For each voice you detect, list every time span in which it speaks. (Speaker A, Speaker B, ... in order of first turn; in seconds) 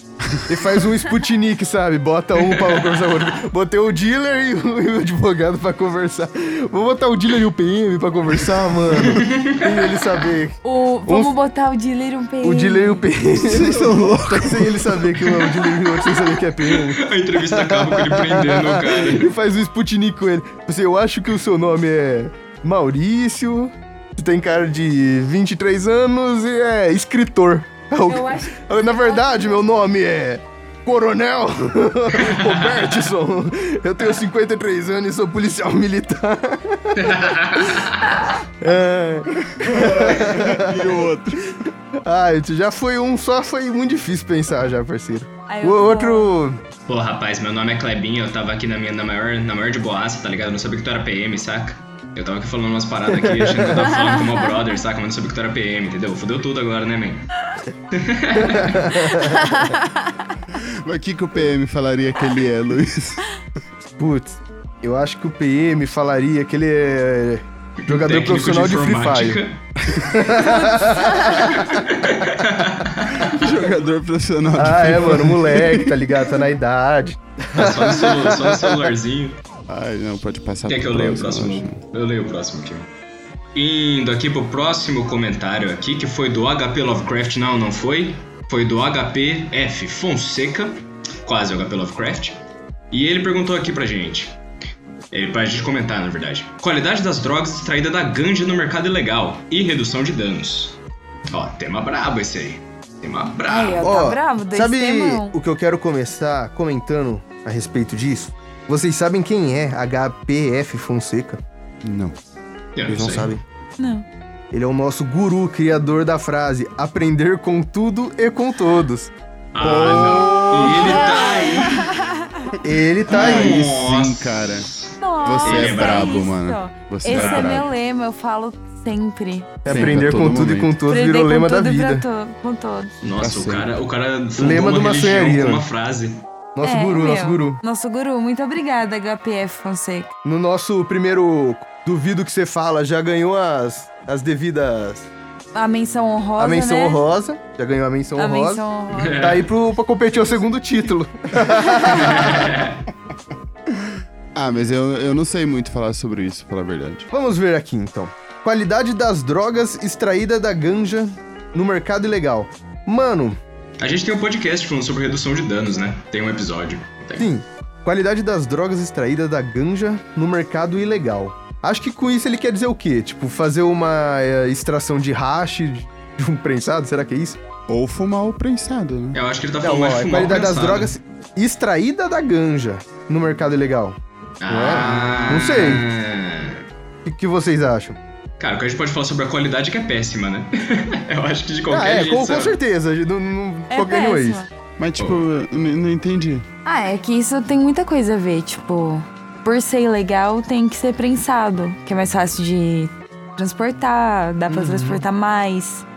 Speaker A: 0.3-0.6, 13.4-15.2, 39.4-41.6, 60.5-63.3, 69.9-70.2, 73.2-76.1, 79.7-81.8, 111.8-112.2, 119.6-121.7, 123.1-124.7, 125.2-127.7, 129.7-130.8, 133.2-133.7, 153.7-157.1, 177.7-179.2, 194.8-196.5
Speaker B: 0.5-11.3, 12.4-37.8, 38.6-41.0, 41.9-46.6, 53.2-53.7, 58.4-59.6, 64.0-69.4, 70.0-71.8, 74.6-78.9, 103.8-111.4, 112.9-113.4, 114.5-119.1, 122.6-123.6, 129.7-132.1, 134.4-135.7, 136.6-137.6, 140.2-145.1, 146.4-152.5, 157.1-163.4, 167.2-177.4, 179.6-184.0, 184.5-185.8, 187.1-188.0, 191.7-194.4, 204.5-205.1
Speaker C: 2.4-3.3, 8.9-10.0, 15.5-19.3, 32.3-32.5, 37.0-38.1, 46.9-57.2, 57.9-59.2, 67.8-69.6, 71.5-73.5, 77.5-79.4, 80.7-82.9, 83.5-92.4, 92.9-94.3, 95.1-100.8, 101.3-104.0, 112.8-113.3, 119.5-121.9, 123.1-126.2, 127.1-127.6, 133.0-136.2, 148.9-149.5, 151.9-152.8, 163.8-167.3, 179.1-180.9, 184.4-186.6, 188.4-192.6, 195.0-195.2
Speaker D: 10.6-13.1, 28.1-29.6, 45.5-46.3, 59.2-59.9, 103.5-105.3, 113.8-114.1, 121.0-122.5, 125.0-129.8, 130.9-132.9, 136.6-140.1, 145.5-147.0, 148.2-149.4, 193.7-194.5, 196.7-205.8